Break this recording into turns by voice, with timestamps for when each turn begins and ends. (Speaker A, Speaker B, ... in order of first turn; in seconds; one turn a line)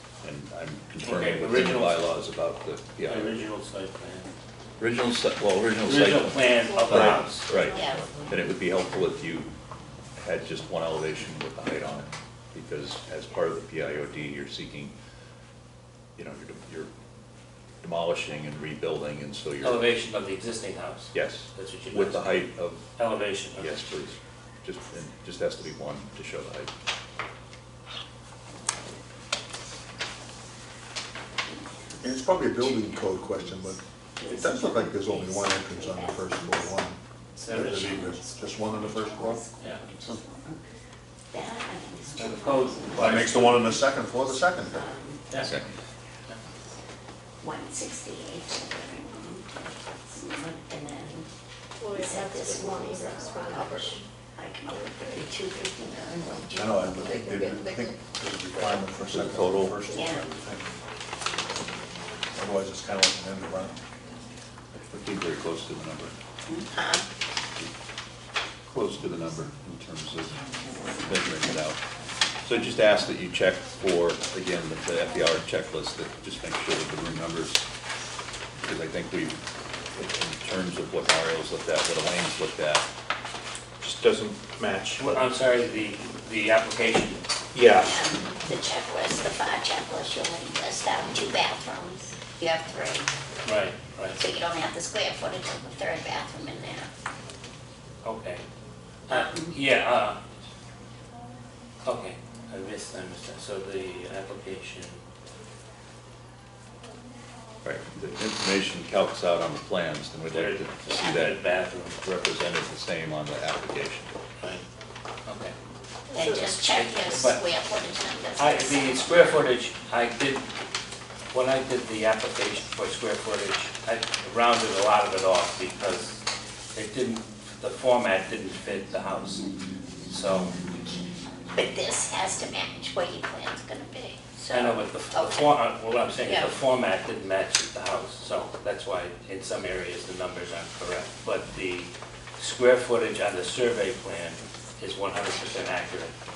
Speaker A: 0.2-3.3
Speaker B: 1.0-2.0
Speaker B: 3.0-4.3
Speaker A: 4.8-9.5
Speaker B: 5.8-7.5
Speaker C: 6.9-7.2
Speaker D: 7.7-8.1
Speaker A: 10.2-14.9
Speaker A: 16.2-16.9
Speaker A: 17.8-19.9
Speaker B: 19.6-23.7
Speaker A: 21.1-22.9
Speaker A: 23.5-26.7
Speaker D: 31.6-33.1
Speaker E: 32.0-39.4
Speaker D: 34.2-36.8
Speaker B: 37.4-38.0
Speaker D: 37.5-40.6
Speaker D: 41.3-45.2
Speaker B: 42.1-43.7
Speaker E: 42.9-44.8
Speaker A: 45.4-45.7
Speaker D: 47.4-51.3
Speaker F: 51.8-54.1
Speaker D: 51.9-57.0
Speaker F: 54.7-55.2
Speaker E: 56.5-60.7
Speaker F: 56.9-58.0
Speaker A: 59.1-59.8
Speaker D: 59.9-60.2
Speaker E: 62.3-63.8
Speaker A: 64.7-66.1
Speaker D: 66.5-67.0
Speaker A: 68.7-70.4
Speaker A: 71.0-71.8
Speaker A: 72.4-77.7
Speaker A: 78.6-79.4
Speaker A: 79.9-82.8
Speaker C: 83.8-85.2
Speaker B: 85.0-87.2
Speaker C: 87.5-87.9
Speaker D: 87.8-93.1
Speaker B: 93.4-94.2
Speaker D: 94.1-96.9
Speaker B: 98.0-98.4
Speaker B: 99.1-100.2
Speaker D: 99.1-99.5
Speaker B: 101.8-105.0
Speaker A: 107.6-111.5
Speaker B: 110.3-112.0
Speaker D: 110.9-111.2
Speaker A: 112.0-114.2
Speaker B: 115.2-115.5
Speaker D: 116.1-119.4
Speaker F: 116.2-116.5
Speaker B: 116.7-117.4
Speaker B: 118.3-120.5
Speaker B: 121.3-129.5
Speaker B: 130.1-130.5
Speaker D: 131.5-135.5
Speaker B: 134.5-146.1
Speaker D: 136.2-136.5